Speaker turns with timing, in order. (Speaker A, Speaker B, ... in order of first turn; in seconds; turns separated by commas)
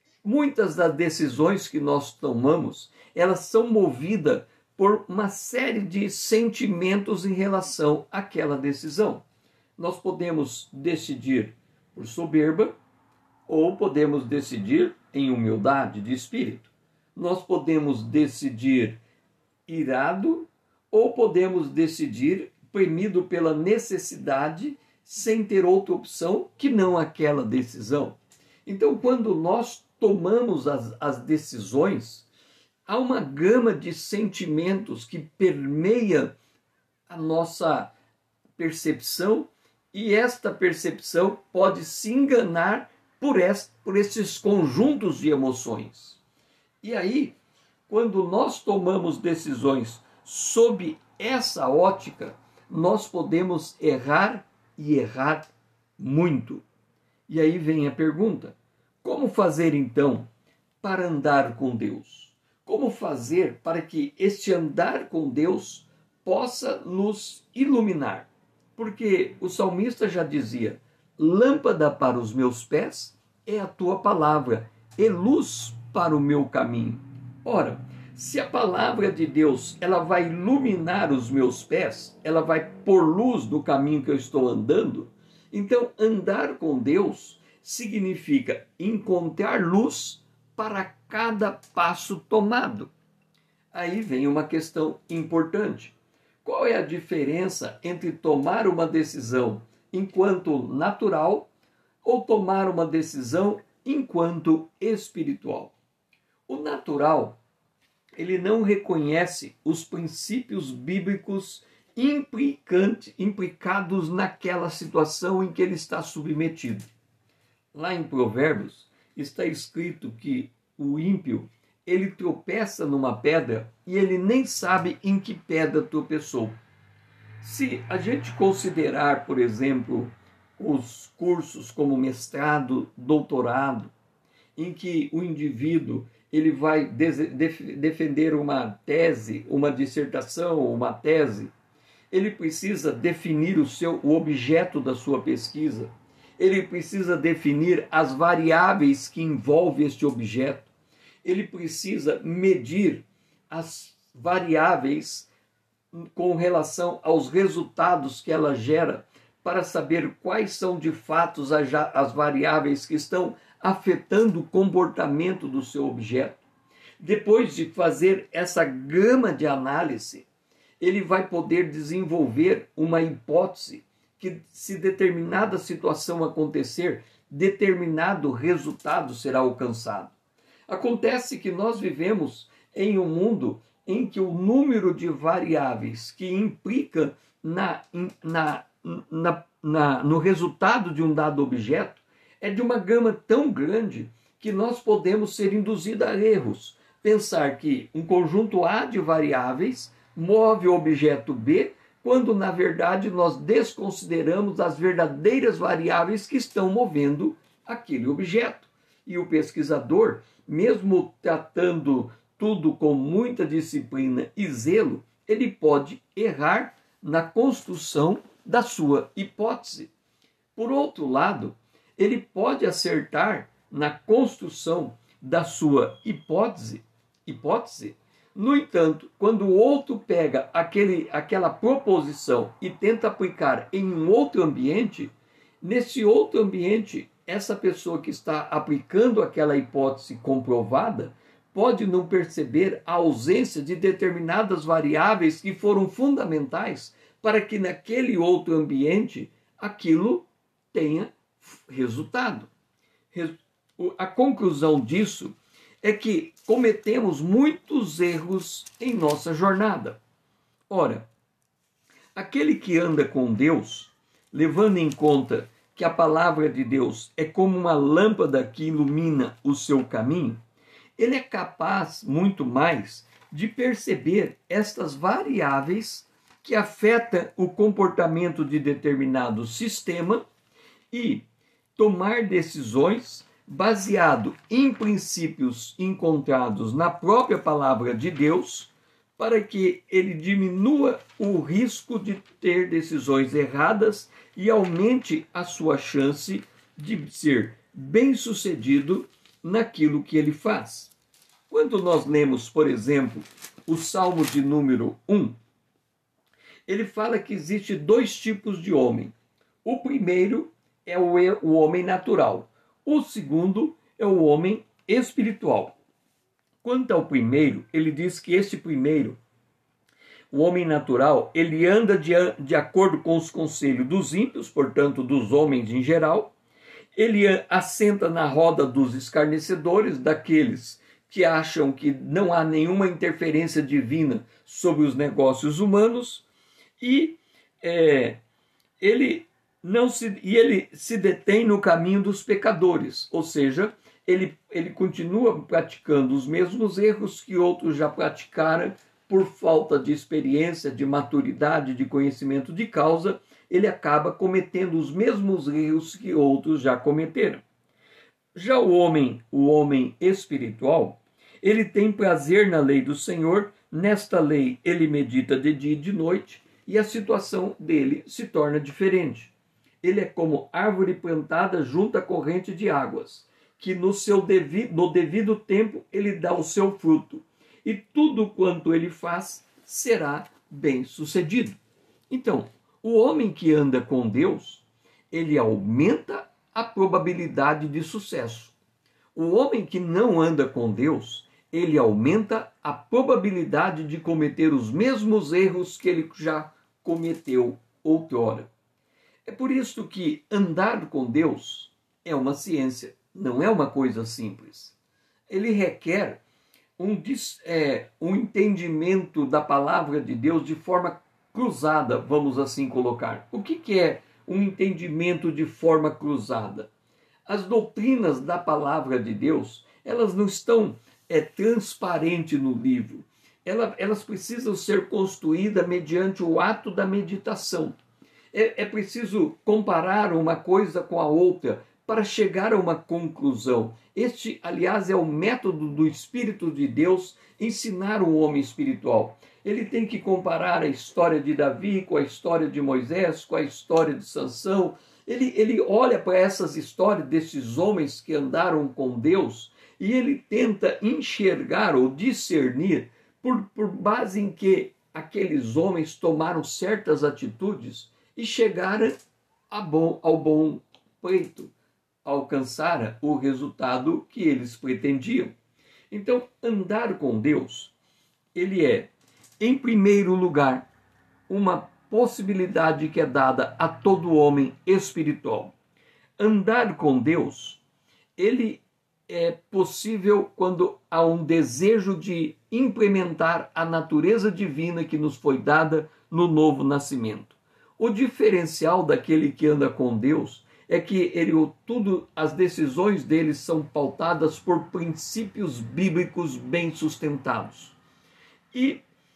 Speaker A: 0.2-9.2, Speaker A: 9.8-12.8, Speaker A: 13.5-19.0, Speaker A: 19.7-32.3, Speaker A: 32.9-36.4, Speaker A: 37.1-37.9, Speaker A: 38.6-46.2, Speaker A: 46.8-47.4, Speaker A: 47.9-56.6, Speaker A: 57.3-60.3, Speaker A: 60.8-92.9, Speaker A: 93.7-101.5, Speaker A: 102.0-105.8, Speaker A: 106.5-107.4, Speaker A: 108.2-116.9, Speaker A: 117.7-126.6, Speaker A: 127.4-133.9, Speaker A: 134.6-141.5, Speaker A: 142.1-150.7, Speaker A: 151.2-155.3, Speaker A: 155.9-166.4, Speaker A: 167.0-170.3, Speaker A: 170.8-180.2, Speaker A: 180.7-219.9, Speaker A: 220.6-252.5, Speaker A: 253.1-260.0, Speaker A: 260.7-261.1, Speaker A: 262.1-270.4, Speaker A: 271.0-280.2, Speaker A: 280.9-281.2, Speaker A: 281.8-300.9, Speaker A: 301.5-305.4, Speaker A: 306.7-315.8, Speaker A: 316.6-319.2, Speaker A: 320.3-326.3, Speaker A: 327.0-336.2, Speaker A: 336.8-338.2, Speaker A: 338.8-357.4, Speaker A: 358.4-381.6, Speaker A: 382.1-388.6, Speaker A: 389.1-398.5, Speaker A: 399.2-404.7, Speaker A: 405.3-406.2, Speaker A: 406.8-416.7, Speaker A: 417.3-427.8, Speaker A: 428.3-459.0, Speaker A: 459.5-461.5, Speaker A: 462.1-465.4, Speaker A: 465.9-467.8, Speaker A: 468.4-470.7, Speaker A: 471.3-475.6, Speaker A: 476.2-477.6, Speaker A: 478.2-497.8, Speaker A: 498.5-498.8